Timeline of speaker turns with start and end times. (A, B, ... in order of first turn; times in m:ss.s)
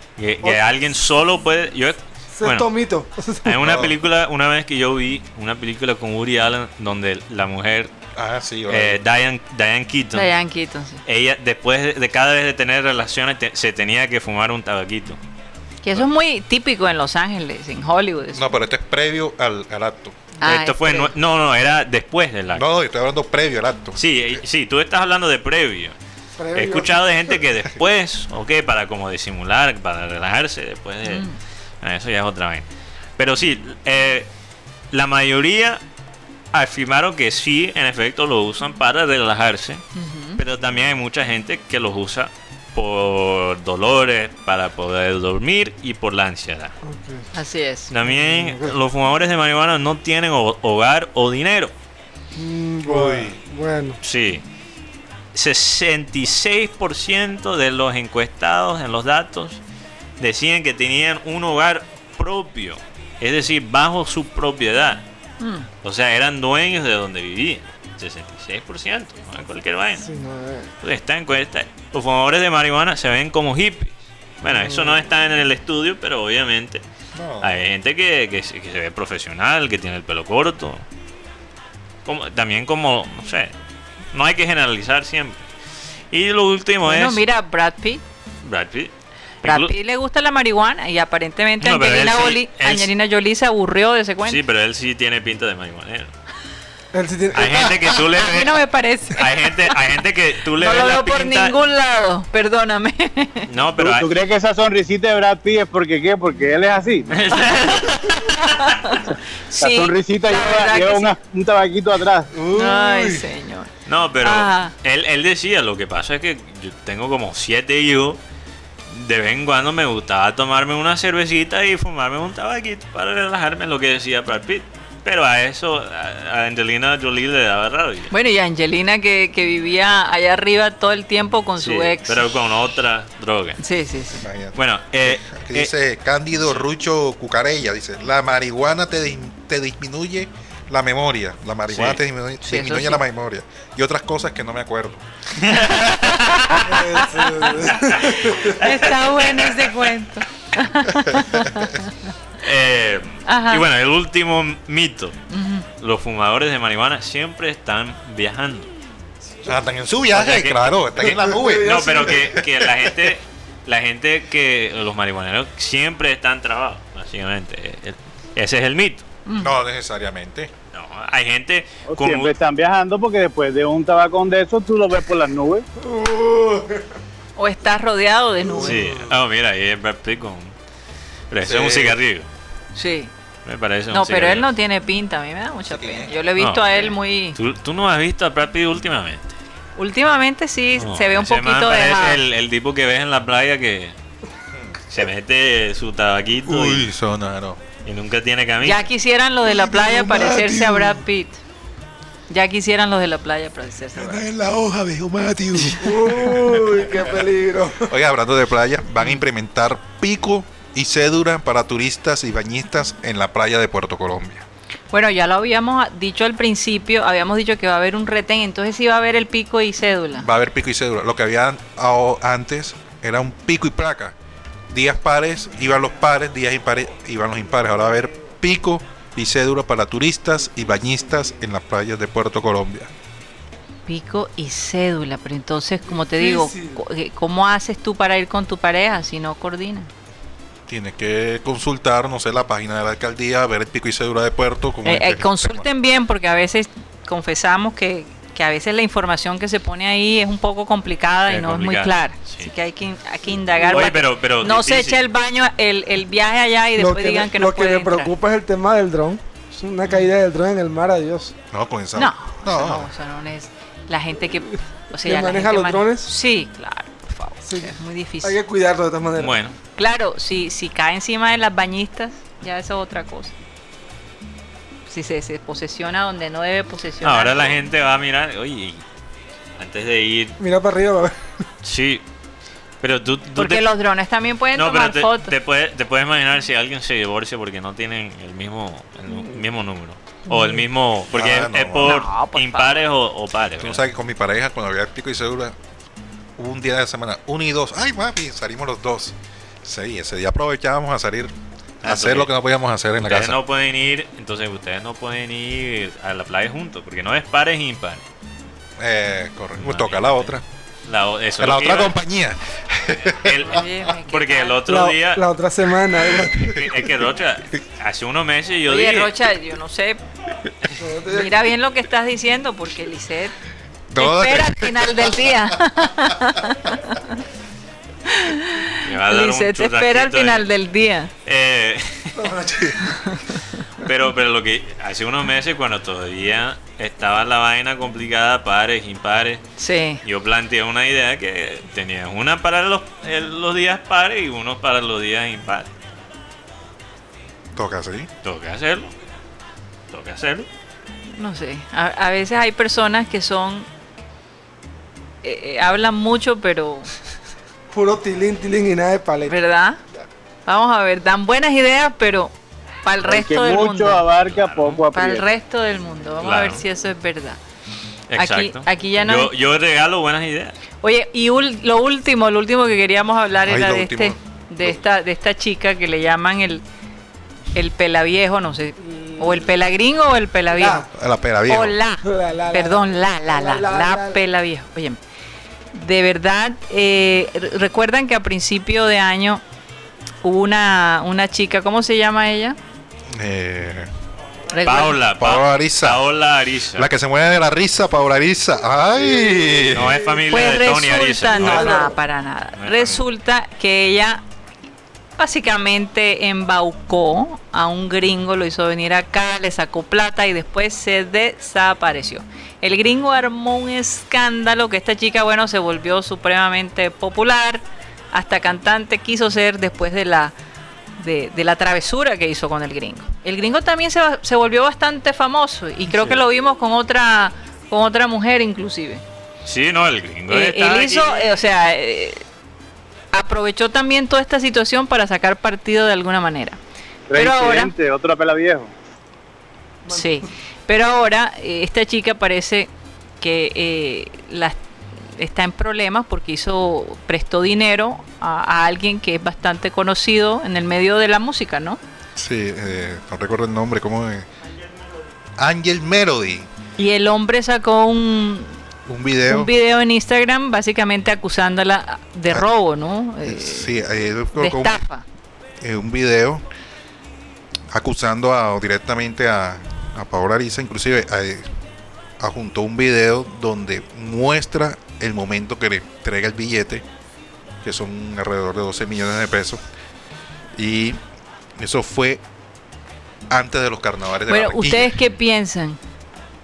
0:00.2-0:02.7 A
0:02.4-0:03.5 B
0:03.4-0:07.9 A
0:03.6-0:04.0 C
0:08.2-0:09.0 C
0:08.7-0:10.3 A
0:10.1-0:11.0 D
0:11.1-0:15.2 A
0:15.8-0:18.5 D
0:18.3-0:20.2 C
0:20.4-0:21.1 D
0:20.4-0:22.6 A
0:22.5-0:24.0 C
0:24.0-0:26.0 A
0:26.4-0:26.9 B
0:26.5-0:31.3 A
0:31.1-0:31.4 D
0:31.8-0:32.7 A
0:33.2-0:34.3 A
0:34.9-0:35.8 A
0:36.5-0:39.8 A
0:40.0-0:40.4 D
0:40.4-0:46.7 A
0:46.8-0:47.3 B
0:47.3-0:47.9 D
0:47.9-0:51.7 A
0:48.0-0:48.7 B
0:52.4-0:54.0 B
0:52.8-0:53.4 C
0:54.0-0:54.4 A
0:55.3-0:59.6 A
1:00.2-1:05.0 A
1:05.4-1:05.7 D
1:05.8-1:10.0 A
1:10.0-1:10.7 B
1:10.8-1:16.8 A
1:14.5-1:15.0 B
1:17.1-1:17.5 C
1:17.4-1:20.8 A
1:22.0-1:23.5 A
1:24.1-1:25.4 A
1:26.1-1:27.2 A
1:26.8-1:28.0 D
1:28.4-1:28.9 A
1:29.4-1:29.7 A
1:29.4-1:34.4 D
1:31.6-1:32.9 A
1:34.3-1:36.1 A
1:36.9-1:37.9 B
1:37.3-1:41.6 A
1:38.2-1:39.5 D
1:40.6-1:43.5 D
1:43.5-1:44.1 A
1:43.8-1:47.1 E
1:47.1-1:48.4 A
1:47.4-1:51.1 D
1:49.6-1:52.3 E
1:52.3-1:53.2 C
1:52.5-1:53.7 D
1:53.9-1:58.2 A
1:54.2-1:54.7 D
1:58.9-2:08.1 A
2:08.1-2:12.3 D
2:11.6-2:13.6 A
2:13.6-2:14.2 D
2:14.2-2:25.8 C
2:14.6-2:15.7 A
2:21.7-2:22.0 A
2:22.4-2:23.0 D
2:25.4-2:26.6 A
2:26.6-2:28.6 B
2:28.6-2:31.9 D
2:28.6-2:29.7 A
2:32.4-2:35.2 A
2:33.3-2:33.6 D
2:35.3-2:35.6 D
2:35.8-2:38.7 A
2:39.4-2:43.1 C
2:40.1-2:40.8 A
2:41.3-2:42.2 B
2:41.6-2:49.1 A
2:49.3-2:49.5 D
2:49.4-2:50.5 C
2:50.7-2:52.3 A
2:51.9-2:55.7 E
2:55.8-2:56.6 B
2:57.4-2:58.8 D
2:58.6-3:00.5 A
3:01.3-3:02.3 A
3:01.4-3:02.0 C
3:02.8-3:03.1 D
3:03.4-3:04.5 A
3:03.9-3:07.4 D
3:05.7-3:06.2 C
3:06.4-3:09.4 A
3:09.8-3:12.2 D
3:10.8-3:13.9 A
3:14.5-3:14.8 C
3:14.9-3:16.9 A
3:16.5-3:17.6 C
3:17.8-3:18.9 A
3:18.6-3:21.4 D
3:19.5-3:21.0 C
3:22.3-3:24.3 D
3:24.0-3:27.2 C
3:25.8-3:27.9 B
3:27.8-3:34.5 C
3:34.9-3:40.3 D
3:40.2-3:44.2 C
3:44.7-3:52.9 C
3:53.9-3:59.9 D
3:55.9-3:56.8 B
4:00.7-4:05.7 C
4:04.8-4:18.1 D
4:11.3-4:12.5 A
4:13.7-4:15.0 A
4:16.8-4:21.4 B
4:21.5-4:22.9 C
4:22.0-4:28.4 D
4:25.0-4:26.1 B
4:27.5-4:29.4 B
4:29.2-4:29.6 A
4:29.8-4:33.3 D
4:34.9-4:37.6 D
4:37.0-4:38.8 A
4:39.6-4:40.4 A
4:40.4-4:41.2 B
4:41.6-4:42.0 A
4:42.8-4:43.6 A
4:43.4-4:45.3 D
4:44.6-4:53.8 A
4:50.3-4:50.6 B
4:51.1-4:52.0 C
4:51.8-4:52.8 D
4:53.6-4:55.6 C
4:56.4-5:03.4 C
5:01.8-5:02.3 A
5:03.0-5:08.0 A
5:08.8-5:10.4 C
5:09.6-5:10.3 A
5:10.9-5:12.0 A
5:11.4-5:13.4 C
5:13.1-5:15.3 A
5:13.4-5:14.6 D
5:14.7-5:16.6 B
5:16.4-5:19.1 A
5:18.7-5:20.0 D
5:20.8-5:21.4 B
5:21.1-5:23.4 D
5:23.9-5:25.6 C
5:24.0-5:27.2 D
5:28.1-5:31.1 D
5:28.8-5:30.5 A
5:31.2-5:32.2 A
5:32.2-5:33.2 B
5:33.0-5:33.4 D
5:33.8-5:39.4 A
5:39.6-5:40.0 D
5:40.0-5:45.7 A
5:47.6-5:48.1 C
5:48.2-5:48.9 A
5:49.9-5:50.5 A
5:51.1-5:53.7 D
5:55.2-5:56.9 D
5:57.7-5:59.4 B
5:59.3-5:59.8 D
6:00.5-6:02.3 D
6:02.8-6:04.0 D
6:03.0-6:05.3 E
6:04.2-6:04.8 A
6:04.9-6:07.4 D
6:06.2-6:06.6 A
6:08.1-6:10.6 A
6:08.2-6:09.3 D
6:10.8-6:16.6 D
6:13.5-6:14.8 C
6:17.5-6:20.8 D
6:18.8-6:19.5 B
6:20.5-6:20.9 B
6:20.9-6:21.8 C
6:21.5-6:25.0 D
6:22.0-6:24.2 B
6:25.7-6:29.4 D
6:30.2-6:32.6 D
6:33.1-6:33.9 C
6:34.5-6:35.0 D
6:34.6-6:36.9 A
6:35.2-6:36.0 C
6:36.8-6:40.0 C
6:39.7-6:41.9 A
6:40.3-6:44.2 D
6:41.4-6:42.0 B
6:42.6-6:43.0 A
6:45.2-7:00.4 D
7:01.0-7:09.0 D
7:09.4-7:11.4 A
7:10.3-7:12.2 D
7:13.1-7:16.6 D
7:17.1-7:18.7 E
7:17.2-7:17.7 D
7:19.9-7:24.6 D
7:25.1-7:31.8 D
7:32.2-7:34.3 C
7:35.4-7:36.5 C
7:36.8-7:38.6 D
7:38.9-7:39.5 C
7:39.2-7:43.7 D
7:43.2-7:44.8 C
7:44.3-7:45.0 D
7:45.6-7:46.4 C
7:47.7-7:51.5 C
7:52.2-7:56.8 C
7:57.6-7:59.6 C
8:00.6-8:01.0 C
8:01.6-8:02.2 C
8:03.3-8:05.0 C
8:04.3-8:05.8 D